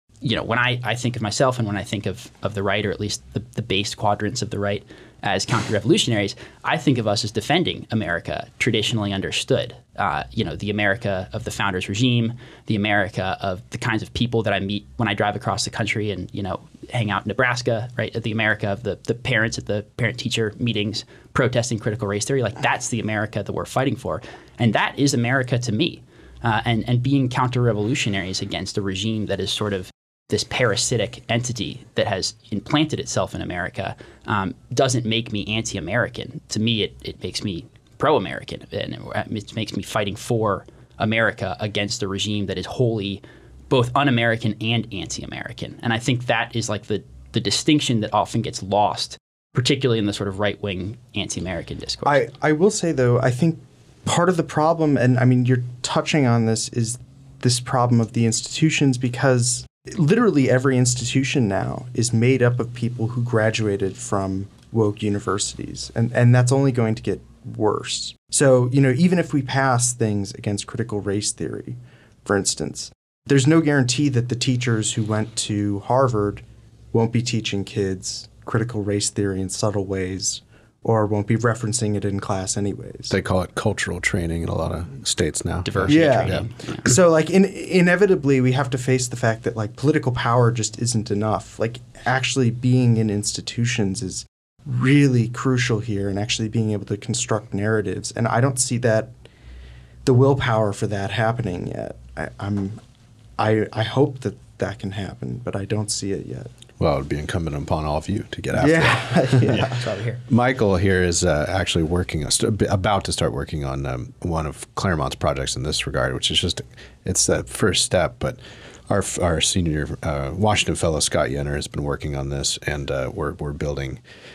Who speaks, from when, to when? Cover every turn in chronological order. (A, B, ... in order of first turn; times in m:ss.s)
0:00.2-0:52.2 A
0:52.0-1:23.2 B
1:23.1-1:27.0 C
1:25.6-1:26.8 A
1:25.9-1:39.1 B
1:40.0-1:42.8 B
1:43.4-1:46.5 B
1:46.8-1:49.7 C
1:48.6-1:49.8 B
1:49.5-1:50.2 A
1:50.3-2:04.0 C